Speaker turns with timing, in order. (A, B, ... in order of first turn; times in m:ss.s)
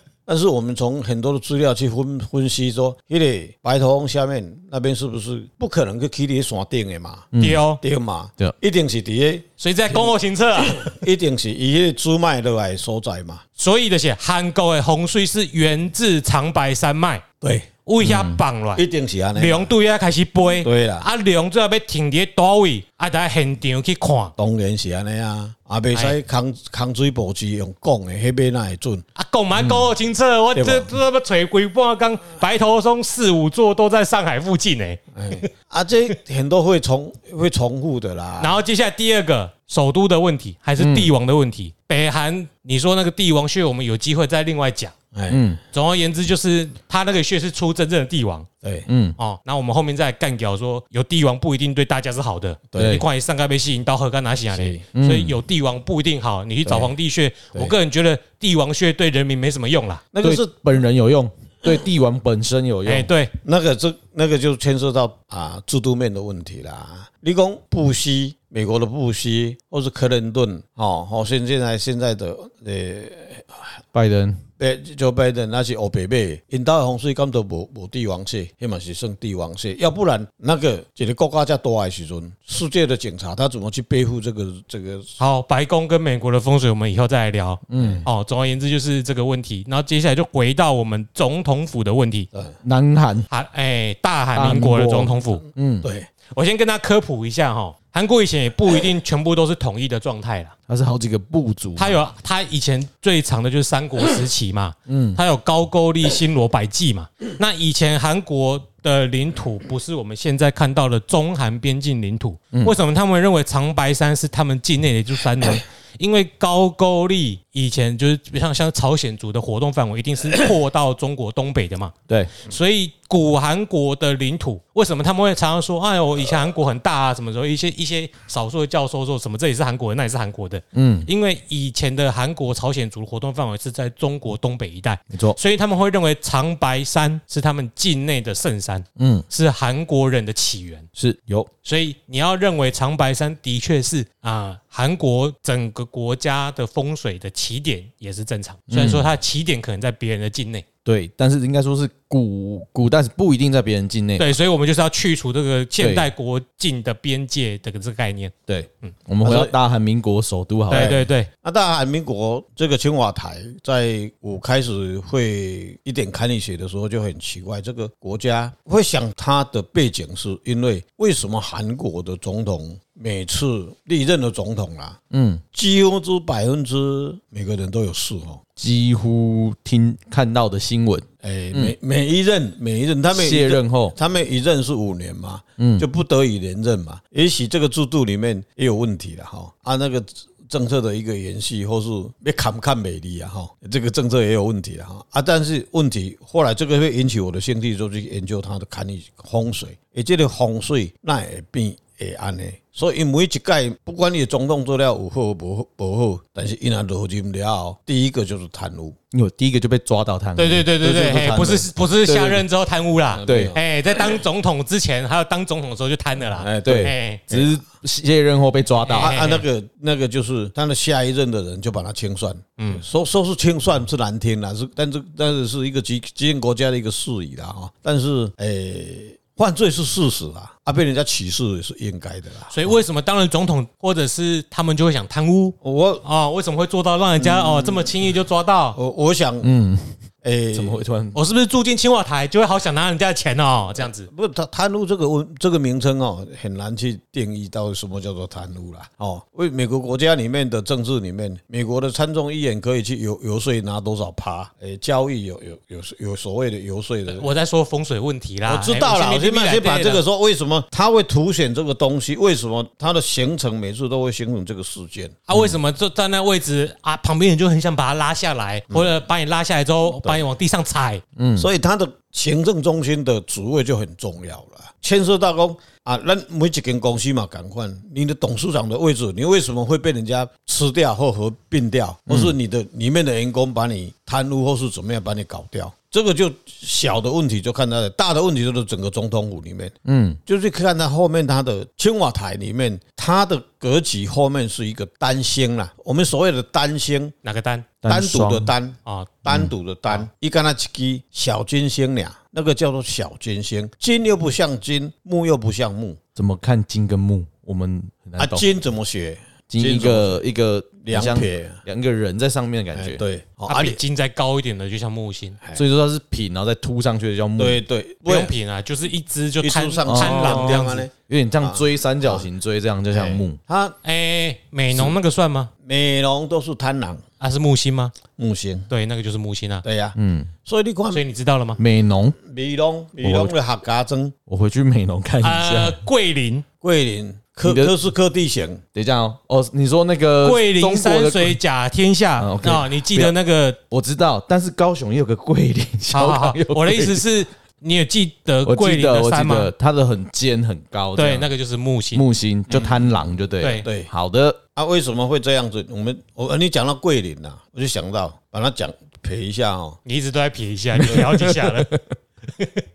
0:00.2-0:07.3 A
0:07.3-0:07.6 B
0:07.4-0:07.8 C
0:07.8-0:13.4 A
0:09.6-0:11.0 C
0:13.6-0:17.2 C
0:17.4-0:17.7 A
0:17.8-0:18.8 C
0:18.0-0:18.4 B
0:18.8-0:19.7 A
0:19.4-0:24.3 C
0:20.6-0:21.1 A
0:24.4-0:29.0 A
0:29.1-0:35.0 C
0:30.5-0:30.9 A
0:35.1-0:38.6 A
0:38.4-0:44.9 C
0:40.8-0:41.1 B
0:45.1-0:45.5 A
0:45.3-0:45.6 B
0:45.7-0:48.5 C
0:48.6-0:48.9 A
0:48.9-0:49.2 B
0:49.2-1:00.0 C
0:52.7-0:53.0 A
0:52.8-0:53.0 B
0:54.5-0:54.8 A
0:54.9-0:55.3 B
0:56.6-0:56.9 A
1:00.1-1:00.6 A
1:00.2-1:03.1 B
1:02.8-1:03.3 C
1:03.4-1:13.8 A
1:13.9-1:14.4 B
1:14.6-1:25.2 A
1:25.2-1:32.3 C
1:27.7-1:28.0 B
1:27.8-1:28.0 A
1:32.6-1:33.3 B
1:33.3-1:35.4 C
1:34.3-1:35.9 B
1:35.8-1:36.1 A
1:36.3-1:40.5 C
1:40.7-1:42.0 B
1:41.8-2:20.9 C
1:44.9-1:45.2 B
2:10.7-2:11.1 B
2:15.1-2:15.4 B
2:19.0-2:19.2 B
2:21.0-2:21.5 B
2:21.6-2:30.6 C
2:28.7-2:29.1 B
2:30.8-2:34.3 B
2:34.2-2:38.9 C
2:35.8-2:36.0 B
2:38.5-2:41.0 B
2:39.2-2:39.5 A
2:40.7-2:41.3 C
2:40.7-2:55.0 A
2:55.1-2:55.4 B
2:55.5-2:58.4 A
2:58.6-3:01.7 B
3:01.2-3:29.0 A
3:03.1-3:03.9 B
3:05.6-3:05.8 B
3:29.1-3:32.4 B
3:30.4-3:37.2 C
3:33.1-3:33.6 A
3:33.3-3:33.6 B
3:36.4-3:37.5 A
3:36.6-3:39.2 B
3:38.9-3:39.4 C
3:38.9-3:52.7 A
3:42.6-3:42.8 C
3:52.5-3:58.8 C
3:55.6-3:56.0 A
3:57.2-3:58.1 A
3:58.7-3:59.5 A
3:59.4-4:00.0 B
4:00.2-4:00.8 A
4:00.5-4:01.2 B
4:01.1-4:04.1 C
4:04.1-4:17.3 A
4:17.1-4:20.0 C
4:18.4-4:25.3 A
4:25.3-4:31.0 C
4:28.7-4:29.0 A
4:31.2-4:31.5 B
4:31.4-4:49.7 A
4:42.1-4:42.3 B
4:49.8-4:50.2 B
4:50.2-4:57.1 A
4:57.2-4:57.7 C
4:57.8-4:58.5 B
4:57.9-5:06.0 A
4:58.8-4:59.2 C
5:06.2-5:08.4 B
5:08.2-5:10.2 A
5:09.5-5:13.0 B
5:10.8-5:11.6 A
5:12.7-5:13.8 A
5:13.5-5:15.4 C
5:15.5-5:17.6 B
5:17.4-5:18.3 A
5:18.0-5:20.9 C
5:19.4-5:22.3 A
5:19.8-5:23.4 B
5:22.9-5:23.8 A
5:23.8-5:25.5 C
5:25.6-5:27.0 A
5:27.2-5:27.9 C
5:28.2-5:28.7 A
5:28.7-5:29.6 C
5:29.6-5:31.0 A
5:30.0-5:30.3 B
5:30.9-5:31.6 C
5:31.6-5:32.2 B
5:32.2-5:34.1 A
5:33.0-5:33.3 B
5:34.3-5:35.8 B
5:35.2-5:36.4 C
5:36.6-5:38.6 A
5:37.4-5:37.7 B
5:38.7-5:41.4 B
5:40.2-5:43.6 C
5:42.2-5:43.1 B
5:43.7-5:47.0 B
5:45.9-5:49.5 C
5:48.4-5:51.3 B
5:51.0-5:52.7 C
5:51.9-5:54.4 B
5:52.5-5:52.8 A
5:53.4-5:53.7 C
5:53.6-5:53.9 A
5:54.5-5:59.8 A
5:59.8-6:01.7 C
6:00.7-6:01.9 B
6:02.3-6:02.6 C